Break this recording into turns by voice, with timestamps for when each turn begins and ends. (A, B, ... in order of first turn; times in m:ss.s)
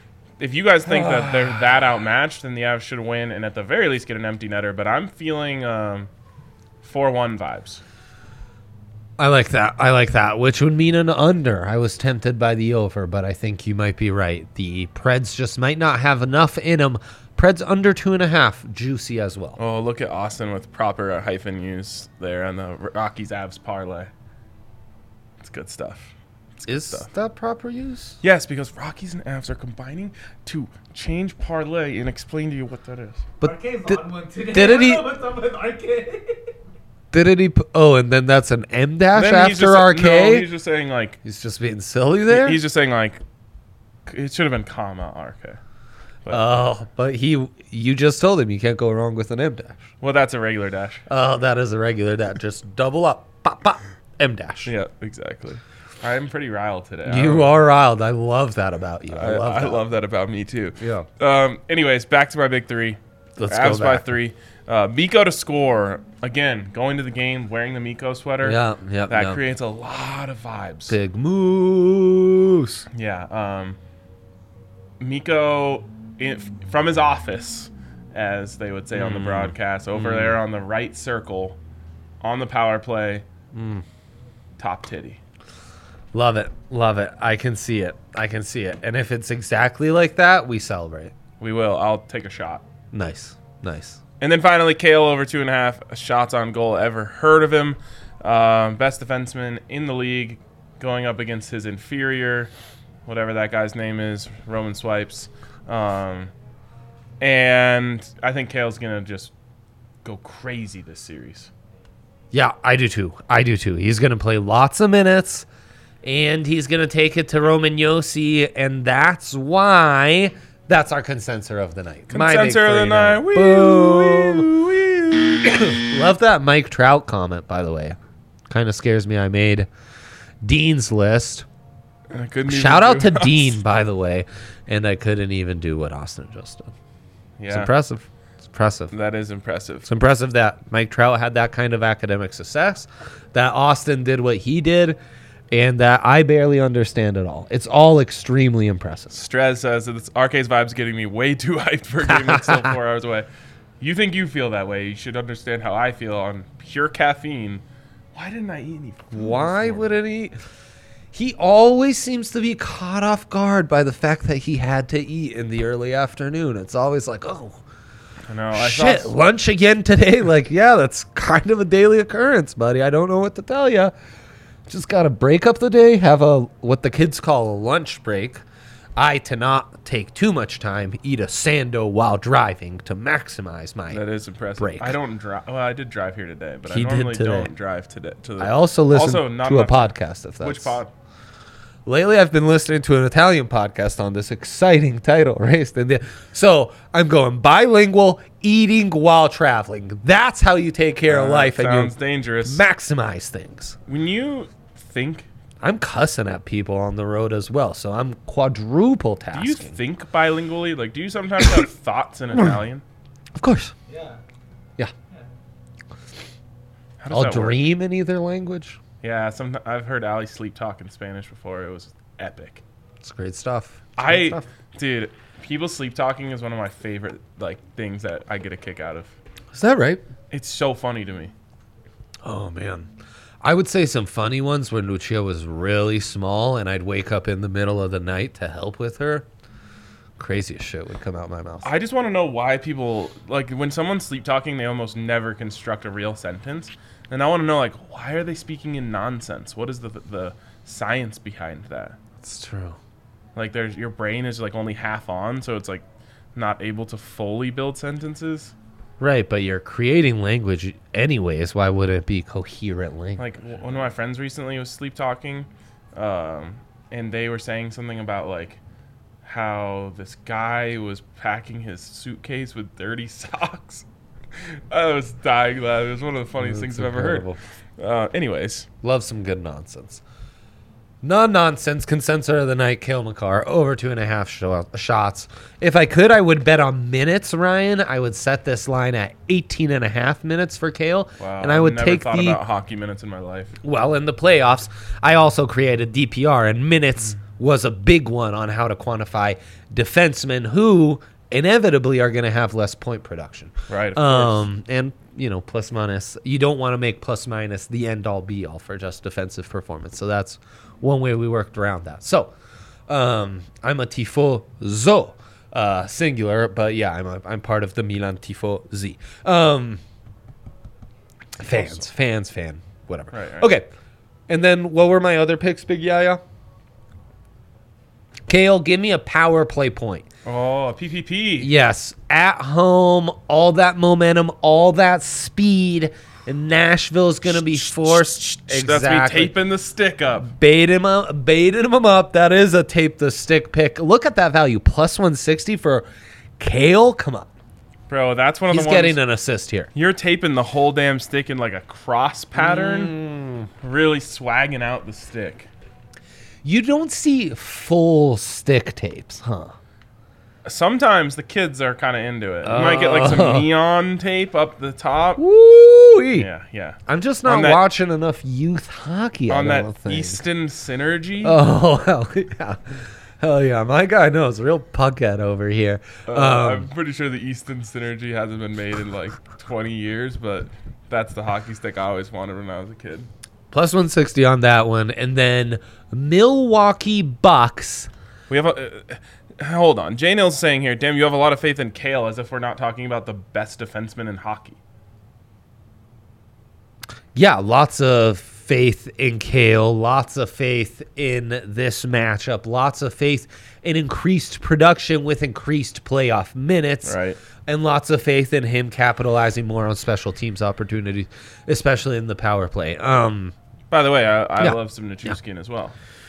0:00.4-0:06.1 A
0:00.8-0:01.7 B
0:06.8-0:07.8 A
0:09.2-0:19.6 B
0:19.6-0:24.1 A
0:25.4-0:27.1 A
0:26.7-0:28.2 B
0:28.2-0:33.2 A
0:33.4-0:34.0 B
0:33.4-0:36.5 C
0:34.5-0:35.0 B
0:37.1-0:40.5 B
0:39.1-0:41.2 A
0:41.2-0:42.6 B
0:42.3-0:43.2 A
0:44.1-0:45.6 A
0:46.3-0:49.8 B
0:50.0-0:51.0 A
0:51.1-0:54.7 B
0:54.6-0:57.6 A
0:57.0-0:59.8 B
0:59.1-1:11.0 A
1:00.8-1:01.1 B
1:03.4-1:04.1 B
1:08.4-1:09.4 B
1:10.9-1:12.8 B
1:12.9-1:13.8 A
1:15.0-1:21.6 A
1:18.9-1:20.4 B
1:22.2-1:23.2 A
1:23.5-1:23.8 B
1:24.6-1:25.2 A
1:26.1-1:31.1 B
1:31.4-1:32.6 A
1:32.9-1:34.0 B
1:34.2-1:42.5 A
1:43.0-1:46.3 A
1:47.2-1:49.3 A
1:50.0-1:51.5 A
1:52.3-1:55.4 B
1:56.0-2:04.5 B
2:02.1-2:05.7 A
2:05.4-2:08.0 B
2:08.5-2:09.7 B
2:10.4-2:11.4 B
2:12.1-2:13.6 A
2:12.5-2:16.7 B
2:17.4-2:17.7 A
2:17.5-2:18.9 B
2:18.9-2:19.9 A
2:19.8-2:25.0 B
2:25.5-2:29.2 B
2:29.1-2:33.3 A
2:32.0-2:32.8 B
2:33.8-2:37.6 A
2:38.1-2:39.9 A
2:39.1-2:40.4 B
2:41.1-2:47.6 B
2:48.3-2:49.1 A
2:48.5-2:53.9 B
2:54.7-2:58.4 B
2:59.0-3:04.0 B
3:03.9-3:10.9 A
3:04.6-3:05.0 B
3:06.7-3:07.5 B
3:08.4-3:10.8 B
3:11.8-3:23.8 B
3:21.1-3:22.6 A
3:23.9-3:25.3 A
3:25.6-3:29.8 B
3:29.3-3:32.8 A
3:33.4-3:33.7 B
3:33.9-3:34.2 C
3:37.0-3:37.6 A
3:37.1-3:38.8 B
3:39.0-3:42.6 A
3:43.0-3:44.5 B
3:44.0-3:49.1 A
3:49.5-3:50.0 B
3:50.3-3:51.3 A
3:52.2-3:59.2 B
4:00.2-4:01.7 B
4:01.6-4:12.0 A
4:12.2-4:12.8 B
4:13.3-4:18.5 A
4:19.0-4:23.2 B
4:23.2-4:28.6 A
4:29.2-4:33.8 A
4:34.4-4:38.7 A
4:36.4-4:37.4 B
4:38.8-4:40.0 B
4:41.0-4:52.4 B
4:51.2-4:53.6 A
4:53.6-5:12.3 B
5:03.7-5:04.5 A
5:12.9-5:19.8 B
5:21.4-5:23.7 B
5:21.5-5:21.9 A
5:23.1-5:23.5 A
5:24.3-5:26.2 B
5:28.3-5:30.0 B
5:30.2-5:31.5 A
5:31.4-5:39.4 B
5:37.2-5:40.3 A
5:40.2-5:45.9 B
5:46.4-5:47.3 B
5:47.9-5:49.0 A
5:48.5-5:49.7 B
5:49.7-5:52.9 A
5:52.3-5:53.5 B
5:53.6-5:55.5 A
5:56.4-5:59.6 B
6:00.4-6:05.2 A
6:02.4-6:03.5 B
6:05.2-6:06.3 B
6:06.2-6:07.6 A
6:06.9-6:10.2 B
6:09.3-6:11.4 A
6:11.2-6:16.7 B
6:16.1-6:23.1 A
6:23.5-6:27.9 B
6:28.3-6:34.6 A
6:37.1-6:53.3 B
6:46.8-6:47.2 A
6:53.7-6:55.7 A
6:54.4-6:55.1 B